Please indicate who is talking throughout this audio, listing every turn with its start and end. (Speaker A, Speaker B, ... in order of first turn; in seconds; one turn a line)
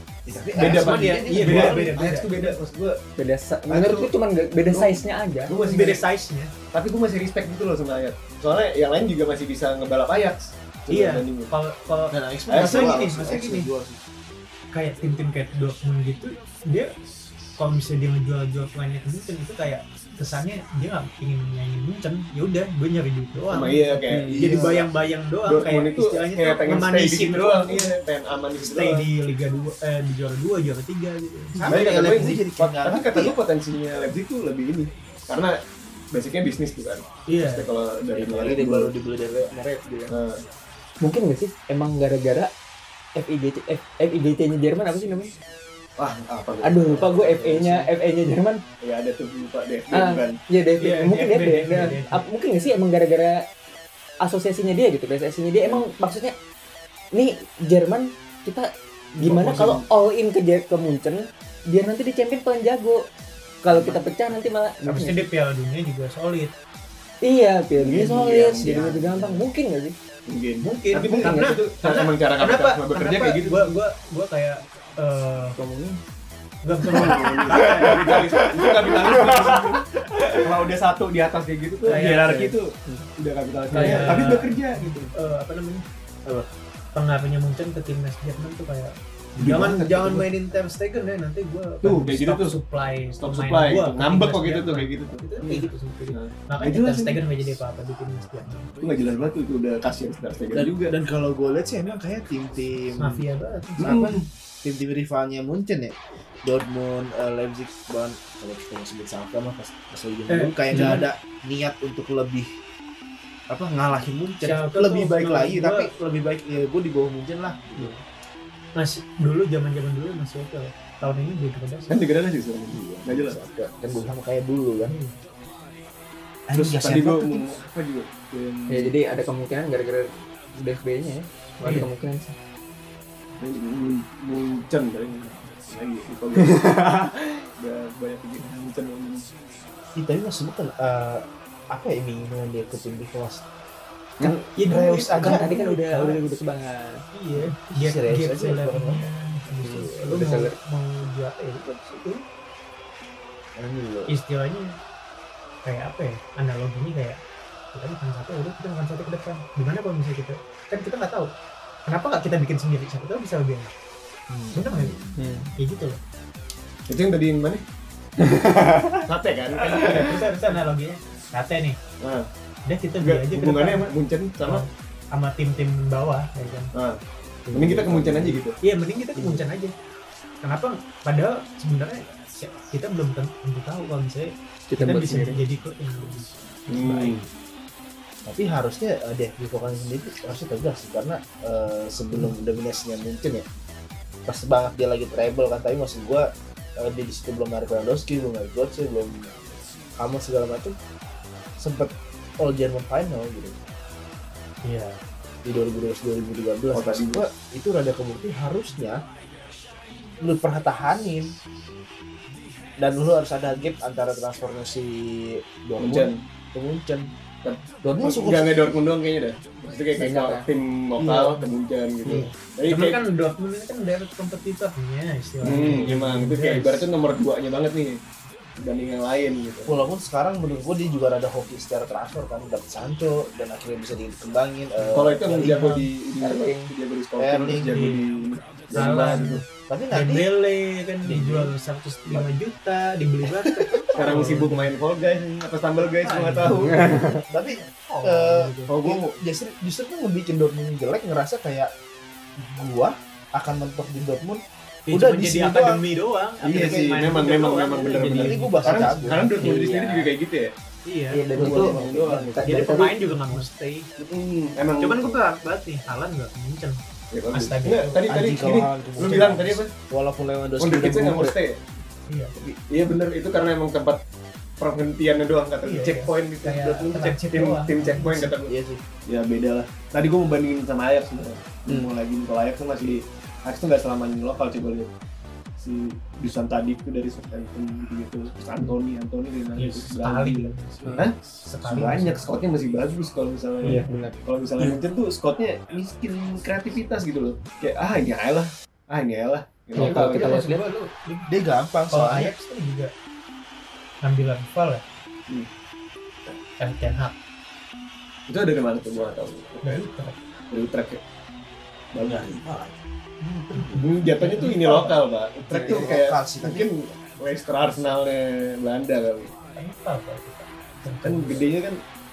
Speaker A: 0.2-1.9
Speaker B: 0.5-3.0
Speaker C: 0.6-2.6
Speaker D: 3.1-5.5
Speaker B: 3.7-4.1
Speaker B: 4.7-6.0
Speaker C: 5.6-6.5
Speaker B: 6.7-11.5
Speaker C: 10.9-13.7
Speaker A: 12.1-14.0
Speaker B: 12.5-13.0
Speaker C: 14.7-16.9
Speaker C: 17.6-27.9
Speaker B: 23.5-24.3
Speaker D: 24.1-24.5
Speaker A: 24.3-24.9
Speaker B: 25.4-29.1
Speaker C: 28.6-31.7
Speaker A: 31.5-33.4
Speaker B: 31.7-35.5
Speaker B: 36.1-38.9
Speaker C: 37.3-37.7
Speaker A: 38.1-40.1
Speaker B: 40.1-40.4
Speaker D: 41.0-42.5
Speaker D: 43.1-45.3
Speaker B: 46.0-47.8
Speaker D: 46.6-48.6
Speaker A: 47.1-47.9
Speaker B: 48.8-50.4
Speaker D: 49.9-53.4
Speaker C: 50.8-52.2
Speaker D: 54.2-56.3
Speaker D: 57.1-63.0
Speaker B: 59.1-59.8
Speaker D: 63.6-65.2
Speaker B: 63.7-64.0
Speaker C: 64.8-66.5
Speaker D: 67.2-70.0
Speaker B: 67.8-69.3
Speaker A: 68.6-69.4
Speaker B: 70.2-73.8
Speaker C: 70.6-75.6
Speaker D: 71.2-71.5
Speaker D: 75.5-76.0
Speaker C: 76.6-78.1
Speaker D: 76.9-80.5
Speaker B: 76.9-85.1
Speaker C: 81.8-82.5
Speaker C: 83.7-85.8
Speaker D: 83.7-84.3
Speaker C: 86.9-98.7
Speaker B: 89.4-90.3
Speaker B: 91.8-92.6
Speaker B: 93.2-95.5
Speaker D: 95.4-95.7
Speaker B: 96.1-97.2
Speaker B: 98.8-100.9
Speaker A: 100.5-103.2
Speaker C: 103.0-103.9
Speaker A: 103.8-112.5
Speaker B: 103.8-104.2
Speaker C: 110.3-111.1
Speaker A: 113.5-118.0
Speaker C: 114.4-115.9
Speaker C: 118.8-122.0
Speaker B: 121.9-123.4
Speaker A: 122.7-125.0
Speaker C: 124.9-125.1
Speaker A: 126.5-127.5
Speaker B: 126.5-128.9
Speaker D: 128.7-132.3
Speaker C: 131.6-131.9
Speaker B: 133.4-136.8
Speaker D: 136.6-137.1
Speaker B: 137.6-139.2
Speaker A: 139.9-143.4
Speaker A: 144.2-145.5
Speaker C: 144.6-146.2
Speaker D: 145.2-147.0
Speaker C: 147.1-152.2
Speaker A: 147.3-149.1
Speaker D: 149.7-150.5
Speaker A: 153.6-154.1
Speaker C: 154.1-154.7
Speaker C: 155.6-157.2
Speaker C: 157.7-161.3
Speaker C: 161.8-163.7
Speaker A: 164.3-165.2
Speaker C: 164.5-165.0
Speaker D: 165.2-165.5
Speaker C: 165.6-166.0
Speaker B: 166.9-167.6
Speaker D: 168.2-169.0
Speaker B: 169.0-170.2
Speaker C: 169.7-171.8
Speaker B: 172.0-172.3
Speaker C: 172.6-176.7
Speaker B: 173.0-174.7
Speaker C: 177.4-179.7
Speaker B: 177.5-178.6
Speaker D: 179.2-179.4
Speaker C: 180.4-186.3
Speaker D: 184.7-185.4
Speaker B: 186.7-187.2
Speaker A: 186.8-187.2
Speaker A: 188.2-193.4
Speaker A: 194.3-196.3
Speaker A: 196.8-200.8
Speaker A: 201.6-203.6
Speaker C: 204.6-205.0
Speaker A: 205.4-209.0
Speaker B: 206.7-207.2
Speaker A: 210.2-211.3
Speaker A: 212.8-217.1
Speaker B: 215.8-216.2
Speaker B: 217.4-223.0
Speaker A: 217.8-218.6
Speaker D: 219.9-220.4
Speaker C: 221.0-221.5
Speaker C: 222.1-226.8
Speaker B: 225.4-228.0
Speaker B: 228.6-229.8
Speaker A: 229.7-235.7
Speaker C: 234.8-235.8
Speaker B: 234.9-239.4
Speaker D: 236.2-236.7
Speaker A: 237.2-237.8
Speaker C: 237.7-238.1
Speaker C: 238.7-244.7
Speaker A: 239.7-240.3
Speaker A: 241.0-241.5
Speaker B: 243.9-247.0
Speaker A: 246.0-246.4
Speaker C: 246.1-246.8
Speaker D: 246.4-247.2
Speaker A: 247.3-251.7
Speaker C: 247.7-248.7
Speaker B: 248.7-249.1
Speaker A: 252.4-255.8
Speaker C: 254.9-259.5
Speaker B: 256.4-260.5
Speaker A: 256.5-257.0
Speaker A: 258.1-259.3
Speaker D: 259.3-260.1
Speaker C: 260.8-261.3
Speaker D: 261.1-263.4
Speaker B: 261.3-262.8
Speaker A: 261.3-261.8
Speaker C: 262.4-263.9
Speaker B: 264.0-265.2
Speaker C: 264.8-266.8
Speaker B: 267.1-269.7
Speaker C: 267.3-268.0
Speaker A: 268.1-271.3
Speaker B: 270.6-271.6
Speaker C: 272.1-272.3
Speaker B: 272.4-274.0
Speaker B: 274.6-278.5
Speaker C: 275.6-278.3
Speaker A: 278.3-278.8
Speaker B: 279.1-284.9
Speaker D: 281.7-281.9
Speaker B: 285.6-291.1
Speaker C: 289.6-292.2
Speaker B: 291.6-300.5
Speaker D: 293.6-294.2
Speaker D: 299.7-300.6
Speaker A: 299.8-300.2
Speaker C: 300.1-301.2
Speaker A: 301.3-302.3
Speaker C: 301.9-302.9
Speaker C: 304.0-304.8
Speaker C: 306.6-307.1
Speaker B: 308.3-309.9
Speaker C: 309.6-310.1
Speaker B: 310.5-311.0
Speaker B: 311.9-312.4
Speaker A: 312.0-313.8
Speaker C: 313.6-315.0
Speaker B: 313.8-319.3
Speaker A: 315.5-316.7
Speaker C: 319.6-321.4
Speaker B: 321.0-321.8